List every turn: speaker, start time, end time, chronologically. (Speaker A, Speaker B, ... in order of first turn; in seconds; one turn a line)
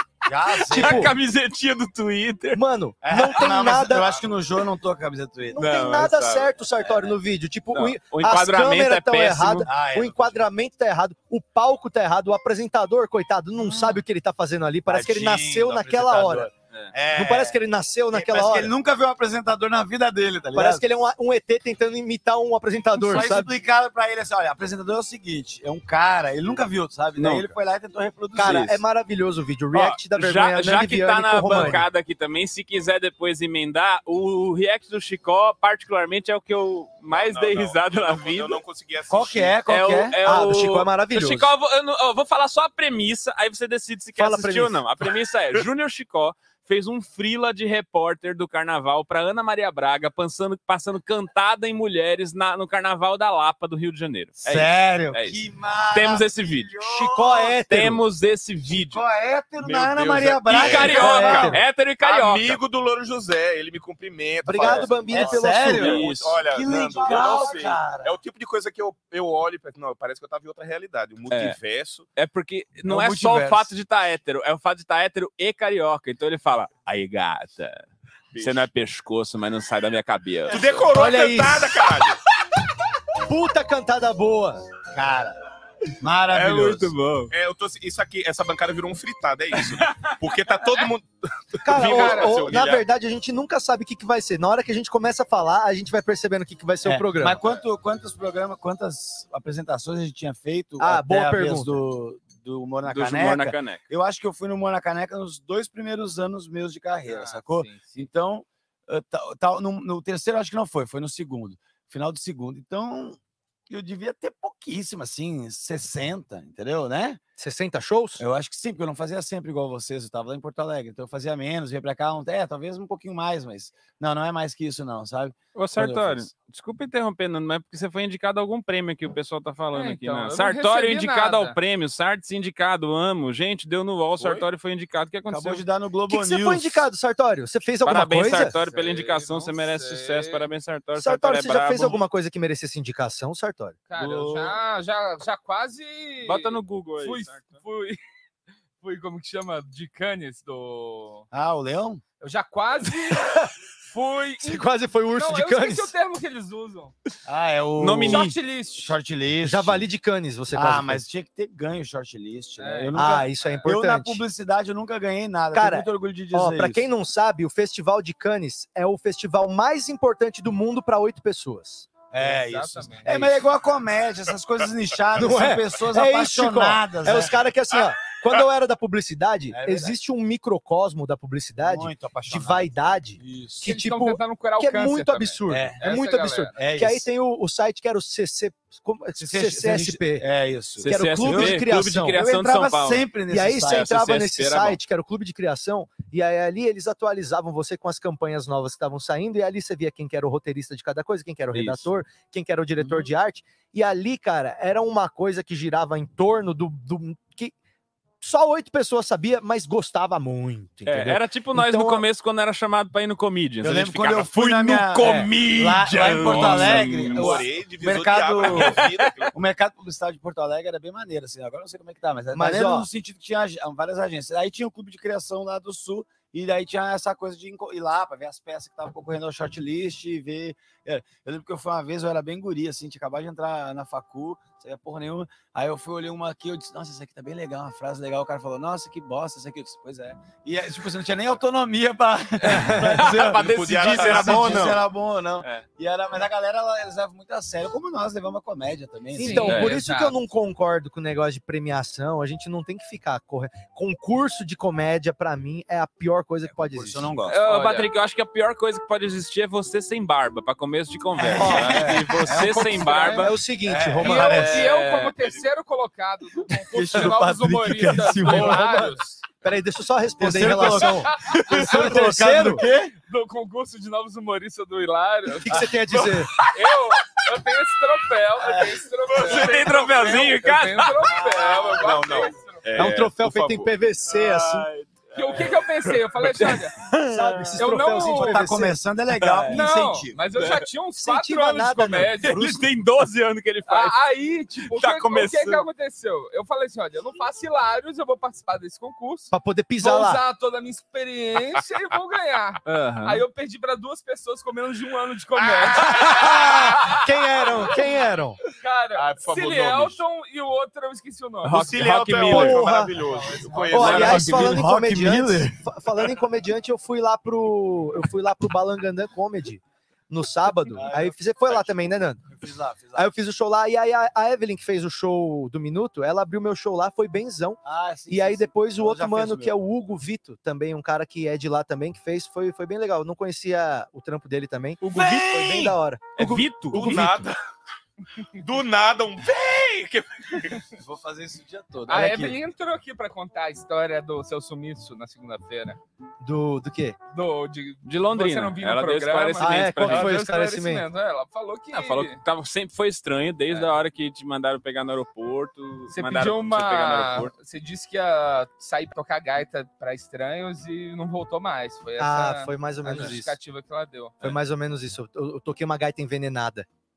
Speaker A: 0.2-1.1
Speaker B: 0.5-2.6
Speaker C: 0.7-1.1
Speaker C: 2.5-4.2
Speaker A: 3.0-5.6
Speaker C: 5.5-16.5
Speaker B: 5.5-7.2
Speaker B: 7.7-9.7
Speaker A: 9.7-10.4
Speaker A: 13.6-14.0
Speaker A: 14.9-20.8
Speaker C: 17.1-18.7
Speaker C: 20.5-23.5
Speaker A: 22.9-28.8
Speaker B: 27.2-27.5
Speaker C: 28.3-31.8
Speaker B: 29.7-38.6
Speaker D: 37.1-39.6
Speaker A: 39.1-40.2
Speaker B: 39.7-55.4
Speaker C: 40.2-41.5
Speaker C: 44.1-44.8
Speaker A: 54.4-57.6
Speaker B: 55.9-56.7
Speaker C: 56.8-58.0
Speaker B: 57.7-59.0
Speaker A: 58.8-61.5
Speaker D: 59.6-72.0
Speaker B: 60.5-62.6
Speaker C: 60.9-61.6
Speaker C: 64.4-66.0
Speaker A: 64.6-68.1
Speaker B: 65.8-66.4
Speaker B: 67.0-67.3
Speaker B: 71.3-71.6
Speaker B: 72.2-77.8
Speaker A: 72.8-73.7
Speaker D: 78.3-78.7
Speaker B: 78.4-80.7
Speaker D: 80.5-82.2
Speaker C: 80.9-81.8
Speaker C: 83.2-84.6
Speaker A: 84.9-85.4
Speaker A: 86.0-86.9
Speaker B: 86.3-87.3
Speaker D: 87.3-92.8
Speaker C: 91.6-97.4
Speaker E: 91.9-92.4
Speaker A: 96.8-113.2
Speaker C: 100.8-101.8
Speaker B: 102.8-103.8
Speaker E: 107.1-108.0
Speaker A: 113.7-117.2
Speaker C: 117.4-118.2
Speaker A: 118.2-126.3
Speaker B: 125.5-135.6
Speaker E: 129.7-131.6
Speaker A: 135.3-136.9
Speaker C: 136.1-138.6
Speaker B: 137.8-142.0
Speaker E: 138.6-140.5
Speaker C: 140.9-143.8
Speaker E: 143.9-148.0
Speaker B: 144.0-144.5
Speaker A: 144.0-144.3
Speaker B: 146.2-147.6
Speaker E: 148.8-151.2
Speaker A: 151.3-152.0
Speaker E: 152.2-153.3
Speaker C: 153.1-153.5
Speaker E: 153.9-156.9
Speaker C: 154.4-155.9
Speaker A: 157.2-159.8
Speaker B: 157.8-158.3
Speaker E: 158.1-158.9
Speaker C: 159.4-161.0
Speaker A: 160.5-166.9
Speaker E: 162.6-163.7
Speaker C: 162.9-164.2
Speaker C: 165.5-171.9
Speaker A: 172.1-177.3
Speaker E: 172.2-173.4
Speaker C: 175.2-190.3
Speaker A: 179.5-180.0
Speaker A: 181.6-183.6
Speaker E: 183.6-186.6
Speaker A: 185.5-185.8
Speaker A: 186.5-187.1
Speaker A: 189.2-193.9
Speaker B: 190.8-193.1
Speaker C: 190.9-192.2
Speaker C: 193.3-207.5
Speaker B: 193.7-194.8
Speaker B: 201.5-201.8
Speaker C: 208.2-212.0
Speaker B: 210.8-217.4
Speaker A: 213.6-249.7
Speaker D: 216.3-219.3
Speaker B: 218.4-219.1
Speaker C: 222.3-222.9
Speaker B: 242.4-244.8
Speaker D: 243.4-244.8
Speaker E: 249.2-250.2
Speaker C: 249.2-257.1
Speaker B: 249.4-249.8
Speaker A: 256.4-257.4
Speaker B: 257.3-263.3
Speaker E: 257.4-257.9
Speaker A: 261.2-264.7
Speaker C: 261.3-262.1
Speaker C: 263.2-264.6
Speaker E: 264.0-269.1
Speaker B: 264.4-265.1
Speaker A: 266.7-268.8
Speaker C: 268.1-272.6
Speaker A: 270.2-272.9
Speaker E: 271.1-271.4
Speaker E: 273.1-275.7
Speaker C: 275.4-276.3
Speaker E: 276.5-282.7
Speaker A: 278.4-278.8
Speaker B: 279.2-281.1
Speaker D: 279.4-280.2
Speaker A: 281.1-281.8
Speaker D: 281.7-283.7
Speaker C: 282.8-284.7
Speaker B: 284.1-285.5
Speaker E: 285.1-286.7
Speaker B: 286.2-287.6
Speaker C: 287.1-288.8
Speaker E: 287.6-288.4
Speaker A: 288.1-290.2
Speaker B: 289.1-289.6
Speaker E: 289.5-292.4
Speaker B: 290.4-290.6
Speaker C: 291.0-292.6
Speaker B: 292.2-293.9
Speaker E: 293.7-307.0
Speaker B: 294.7-295.6
Speaker C: 299.3-300.2
Speaker B: 302.6-303.2
Speaker D: 305.4-306.7
Speaker C: 305.9-308.4
Speaker E: 308.6-311.6
Speaker D: 308.9-310.0
Speaker B: 311.4-312.6
Speaker D: 311.5-314.5
Speaker C: 312.2-312.9
Speaker A: 313.1-315.6
Speaker C: 313.7-322.3
Speaker B: 313.8-314.5
Speaker A: 320.7-323.1
Speaker C: 322.9-337.2
Speaker A: 327.6-329.6
Speaker B: 334.8-337.2
Speaker D: 336.7-337.4
Speaker D: 338.4-340.6
Speaker A: 340.8-342.4
Speaker E: 341.9-345.8
Speaker C: 346.2-347.0
Speaker E: 347.1-352.2
Speaker B: 347.8-350.2
Speaker C: 349.4-350.8
Speaker B: 351.7-357.3
Speaker E: 355.9-364.2
Speaker C: 362.0-363.4
Speaker C: 364.2-366.7